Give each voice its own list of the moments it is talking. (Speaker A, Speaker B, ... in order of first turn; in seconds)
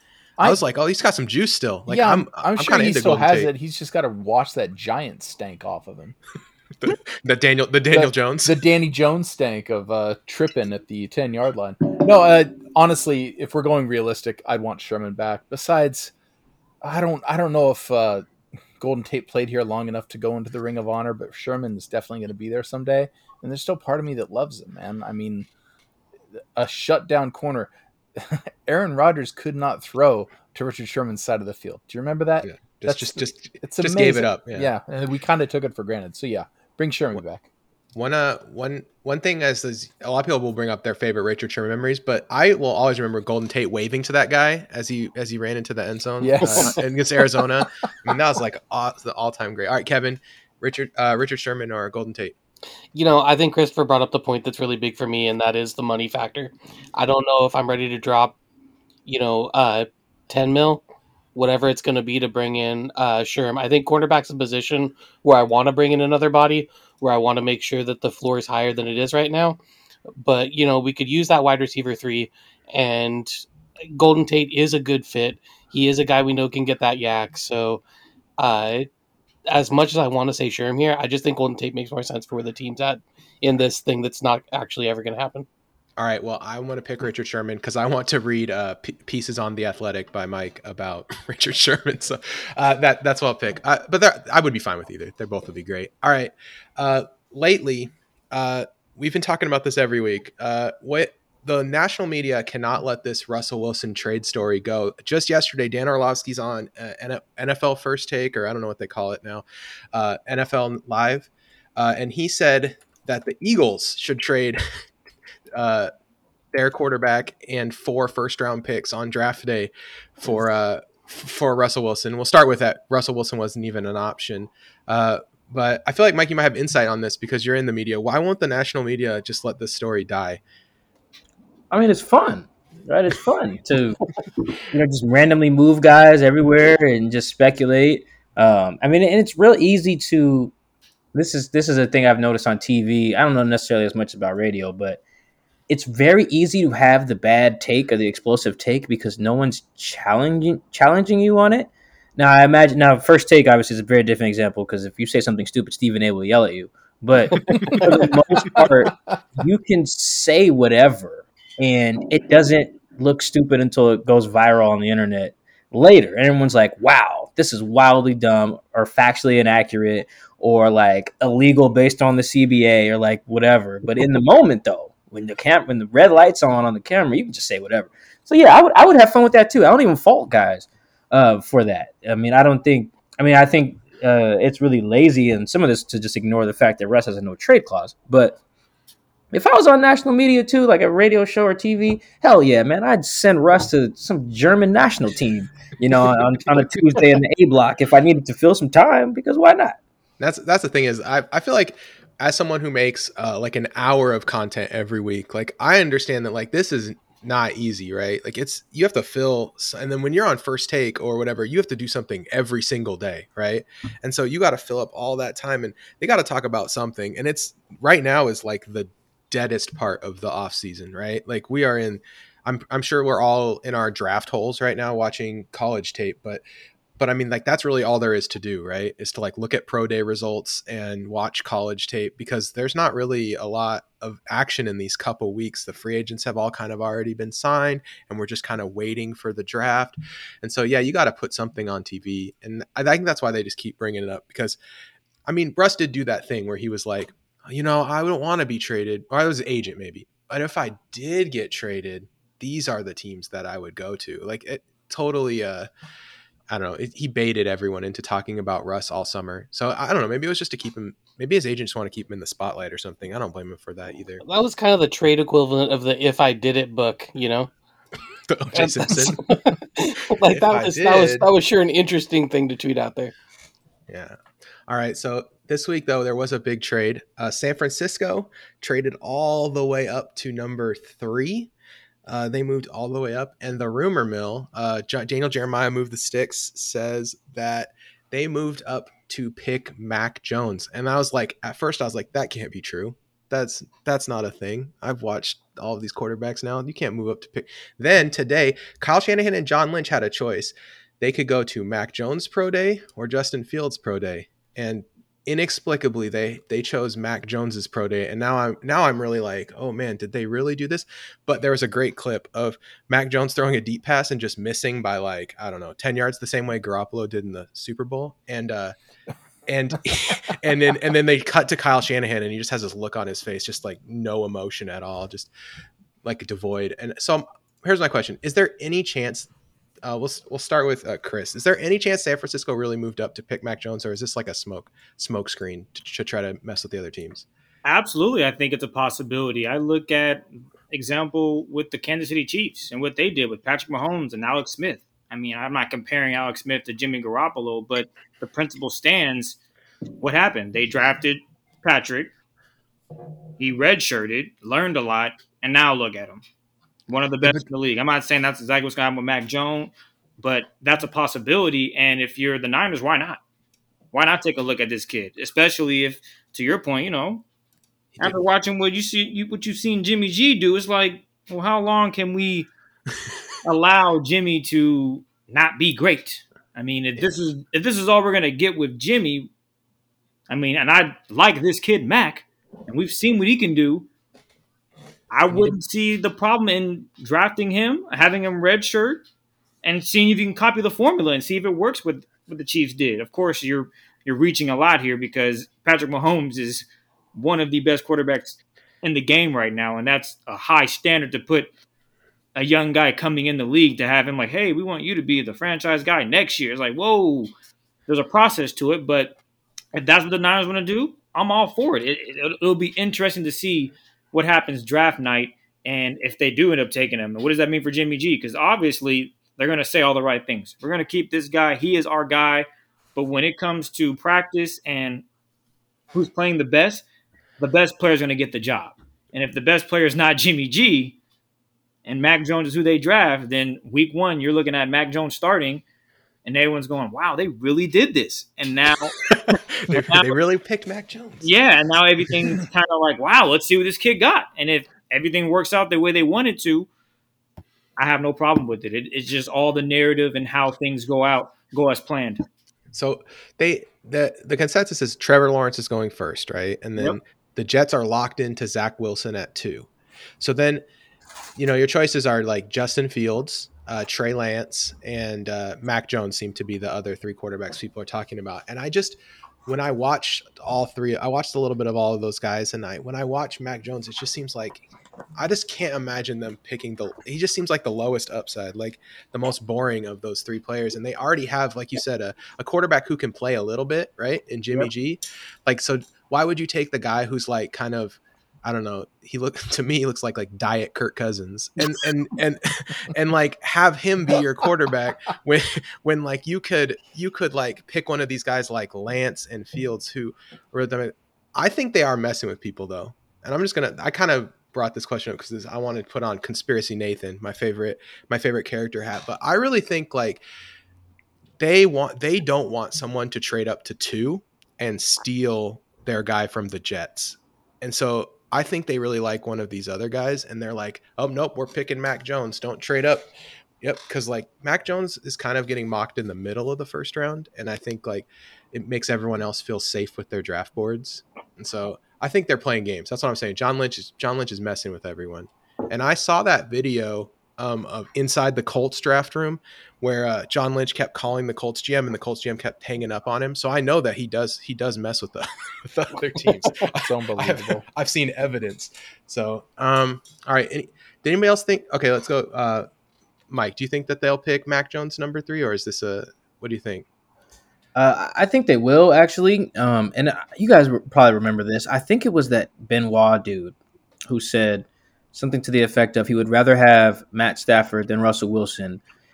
Speaker A: 0.4-3.5, 6.8-8.6, 32.4-34.7, 37.9-52.4, 86.0-114.6, 115.5-115.9, 116.5-130.4, 200.2-226.4, 227.0-244.6, 245.3-255.7, 256.5-264.2, 268.3-269.2, 270.2-271.3, 273.9-281.5, 282.1-318.8, 319.5-325.3, 326.0-329.3, 329.8-337.3, 439.1-441.3, 452.7-459.7, 460.2-460.6, 461.4-474.6, 475.2-510.2, 511.4-523.1, 523.6-552.7, 553.3-556.9
Speaker B: 1.9-6.2, 7.9-16.1, 16.8-18.3, 18.8-25.5, 26.6-37.5, 46.2-46.8, 157.5-158.1, 546.7-547.6
Speaker C: 52.9-58.4, 59.1-60.8, 61.4-69.6, 70.2-77.8, 78.4-78.9, 79.5-85.5, 264.2-267.5, 268.6-273.1
Speaker D: 131.7-134.0, 134.7-140.5, 141.1-145.0, 145.7-188.4, 189.3-199.8, 557.8-563.5, 564.1-568.8
Speaker E: 337.6-349.4, 350.0-352.1, 353.4-356.2, 356.9-363.2, 363.9-367.2, 368.0-372.5, 373.4-379.3, 380.3-383.9, 385.1-389.0, 389.6-401.5, 402.4-407.3, 407.9-409.2, 409.7-425.1, 425.9-426.8, 427.4-431.0, 431.9-435.6, 436.2-440.1, 441.2-446.7, 447.8-452.2